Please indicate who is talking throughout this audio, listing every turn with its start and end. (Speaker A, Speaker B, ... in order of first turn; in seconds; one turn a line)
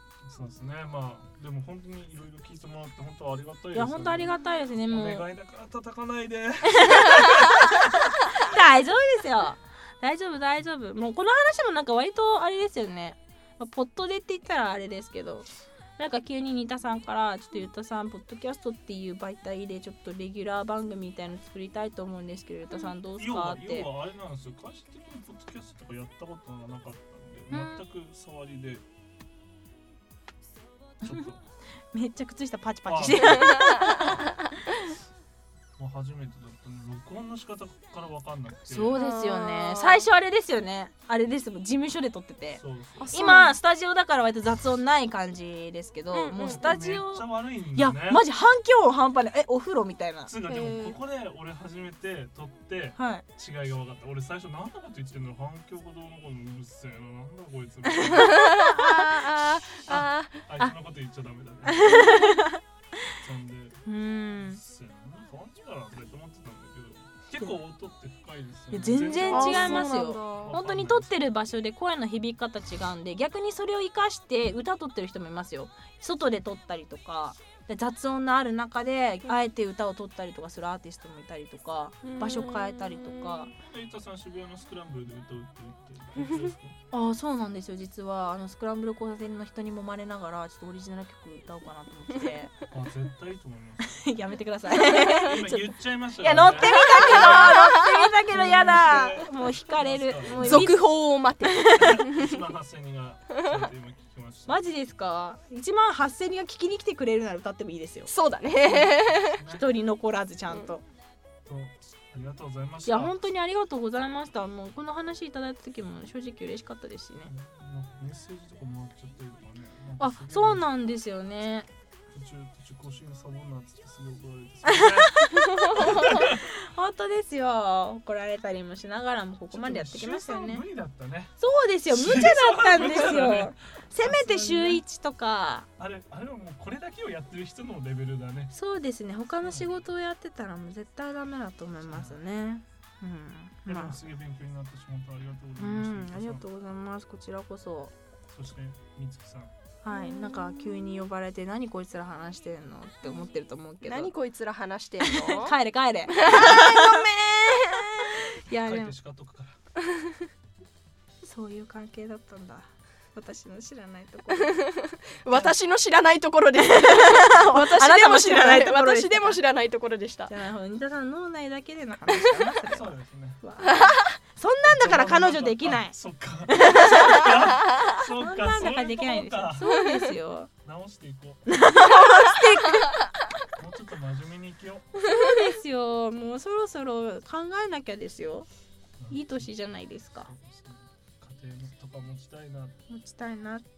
Speaker A: 0.2-8.1
Speaker B: 3.7-5.3
Speaker B: 6.7-23.9
Speaker A: 23.2-28.9
Speaker B: 27.5-27.8
Speaker A: 31.0-31.4
Speaker B: 31.9-34.2
Speaker A: 32.9-34.2
Speaker A: 35.8-39.0
Speaker B: 38.7-50.3
Speaker C: 39.0-40.1
Speaker A: 42.6-43.2
Speaker C: 43.0-43.6
Speaker C: 46.1-46.6
Speaker A: 46.4-48.2
Speaker A: 50.3-58.4
Speaker C: 50.5-51.0
Speaker B: 53.0-53.2
Speaker B: 57.9-59.7
Speaker C: 58.3-60.3
Speaker A: 59.9-62.4
Speaker B: 61.7-62.6
Speaker A: 63.2-63.8
Speaker B: 63.9-64.6
Speaker A: 64.3-71.2
Speaker B: 68.7-83.5
Speaker C: 69.3-70.5
Speaker C: 82.0-83.5
Speaker A: 83.7-86.8
Speaker C: 86.2-86.5
Speaker B: 86.9-92.6
Speaker A: 92.7-94.0
Speaker B: 93.8-100.9
Speaker A: 94.9-97.5
Speaker C: 96.5-98.1
Speaker A: 98.3-100.8
Speaker C: 100.4-102.4
Speaker B: 101.4-102.0
Speaker A: 101.7-104.7
Speaker B: 104.5-108.1
Speaker C: 108.1-109.4
Speaker A: 109.1-109.7
Speaker B: 109.5-110.8
Speaker A: 111.5-113.2
Speaker B: 112.8-117.3
Speaker A: 117.3-120.7
Speaker B: 120.0-121.7
Speaker A: 122.1-126.5
Speaker B: 124.6-130.6
Speaker A: 129.5-131.3
Speaker B: 131.4-135.7
Speaker A: 131.9-134.8
Speaker A: 135.8-138.5
Speaker B: 138.5-144.0
Speaker A: 139.4-139.8
Speaker A: 141.8-142.2
Speaker A: 143.7-146.4
Speaker B: 145.6-147.9
Speaker A: 148.3-149.5
Speaker B: 149.8-154.1
Speaker C: 149.9-150.6
Speaker C: 153.8-155.5
Speaker B: 155.0-157.1
Speaker C: 156.1-158.2
Speaker B: 158.2-158.9
Speaker A: 158.5-159.6
Speaker C: 159.8-160.2
Speaker B: 161.2-164.6
Speaker C: 164.4-170.3
Speaker B: 166.7-169.4
Speaker B: 170.3-175.9
Speaker A: 172.7-173.4
Speaker C: 173.7-174.1
Speaker A: 174.6-179.7
Speaker B: 176.5-180.5
Speaker C: 179.7-180.0
Speaker A: 180.6-181.4
Speaker B: 181.5-183.0
Speaker A: 183.6-184.9
Speaker B: 185.1-188.5
Speaker A: 189.0-189.5
Speaker B: 189.1-190.3
Speaker A: 190.2-192.8
Speaker B: 192.9-193.6